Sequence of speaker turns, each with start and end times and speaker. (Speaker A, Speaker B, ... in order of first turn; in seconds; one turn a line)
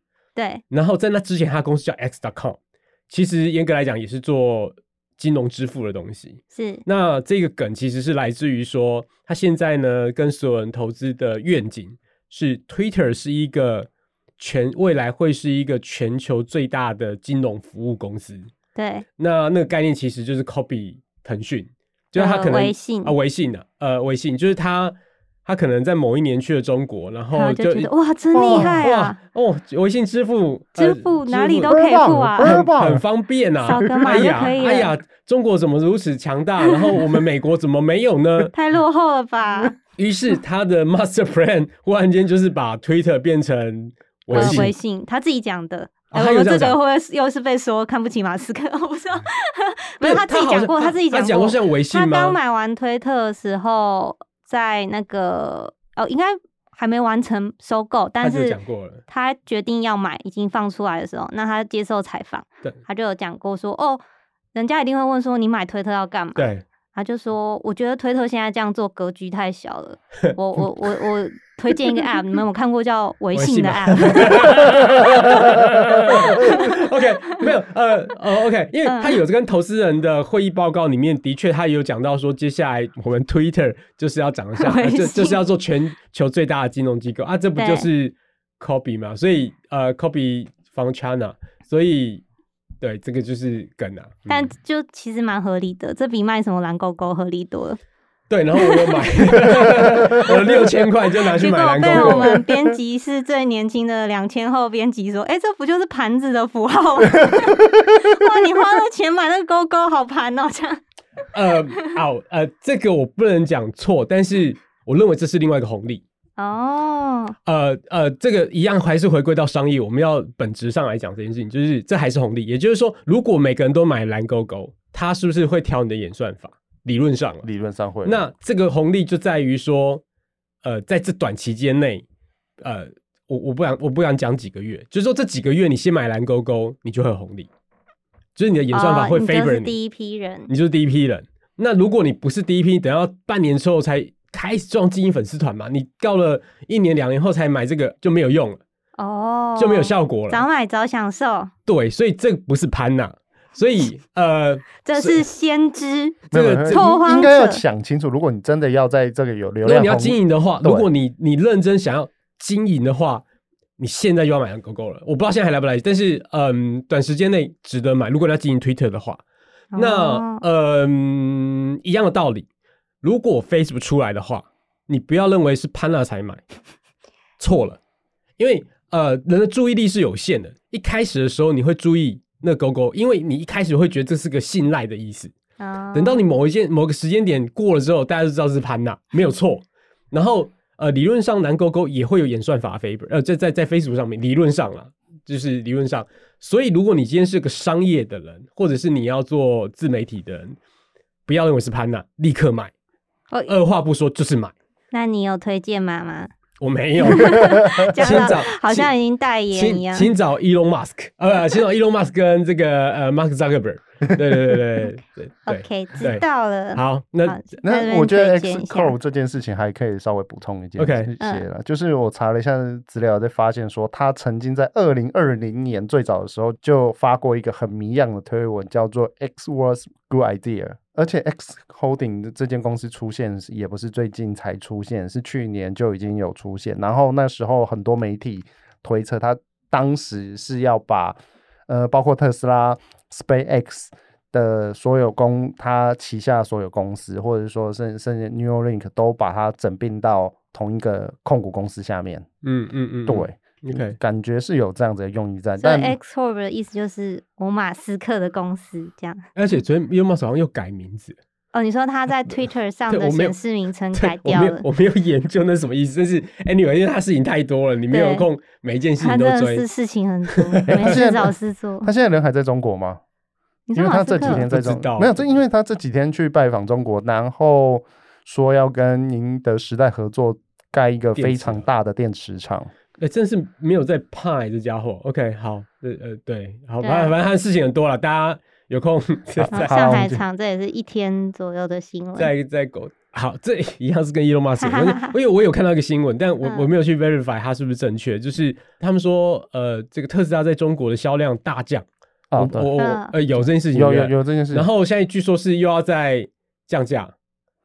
Speaker A: 0.3-0.6
Speaker B: 0.7-18.5
Speaker A: 6.5-6.8
Speaker A: 18.7-19.1
Speaker B: 19.2-38.5
Speaker A: 22.1-23.1
Speaker A: 27.3-29.2
Speaker C: 28.4-28.8
Speaker A: 30.8-32.6
Speaker C: 31.7-33.0
Speaker A: 33.6-34.9
Speaker C: 33.7-34.3
Speaker A: 36.7-37.0
Speaker A: 38.5-39.8
Speaker B: 40.0-44.7
Speaker A: 44.3-58.6
Speaker B: 46.1-46.8
Speaker B: 50.0-52.4
Speaker B: 58.2-59.0
Speaker A: 59.1-64.0
Speaker A: 64.5-77.5
Speaker B: 66.3-66.6
Speaker B: 73.3-92.2
Speaker A: 78.8-79.2
Speaker A: 84.6-85.4
Speaker A: 87.6-87.9
Speaker B: 92.8-94.5
Speaker A: 94.3-97.8
Speaker B: 98.3-102.4
Speaker A: 98.5-99.4
Speaker A: 101.2-110.8
Speaker C: 101.9-102.2
Speaker B: 111.3-116.0
Speaker A: 116.4-117.3
Speaker B: 117.5-127.5
Speaker C: 127.4-128.2
Speaker B: 128.0-130.0
Speaker B: 130.6-132.0
Speaker B: 132.6-137.5
Speaker B: 138.3-139.7
Speaker A: 138.7-140.5
Speaker B: 140.5-148.6
Speaker A: 149.0-151.5
Speaker B: 149.6-150.4
Speaker B: 151.7-155.2
Speaker A: 154.8-157.6
Speaker B: 156.3-156.9
Speaker C: 156.3-160.9
Speaker B: 159.6-163.2
Speaker B: 163.8-169.2
Speaker A: 169.7-170.4
Speaker B: 169.7-172.5
Speaker B: 173.0-176.4
Speaker B: 177.4-177.8
Speaker B: 178.4-185.3
Speaker A: 185.6-186.2
Speaker B: 185.9-200.6
Speaker B: 201.3-202.7
Speaker B: 203.5-204.5
Speaker A: 204.9-206.3
Speaker B: 206.6-208.9
Speaker A: 207.0-210.1
Speaker C: 207.3-207.9
Speaker B: 209.5-216.2
Speaker A: 215.5-218.9
Speaker B: 216.7-217.4
Speaker C: 217.6-241.2
Speaker B: 220.8-221.1
Speaker A: 221.2-221.4
Speaker C: 241.7-252.2
Speaker B: 252.4-254.0
Speaker C: 253.1-255.9
Speaker A: 255.6-259.2
Speaker B: 259.4-261.2
Speaker A: 261.5-264.6
Speaker B: 262.9-263.4
Speaker B: 263.9-269.6
Speaker A: 267.9-268.3
Speaker A: 269.0-271.9
Speaker B: 270.3-271.0
Speaker C: 270.7-273.0
Speaker A: 273.7-274.4
Speaker C: 273.8-282.7
Speaker B: 274.2-275.4
Speaker B: 281.1-281.6
Speaker B: 283.0-289.9
Speaker A: 286.8-287.1
Speaker C: 289.4-290.2
Speaker A: 289.5-292.3
Speaker B: 292.1-307.1
Speaker A: 294.6-295.1
Speaker A: 296.4-296.7
Speaker C: 302.3-302.7
Speaker A: 302.8-303.1
Speaker C: 303.4-304.7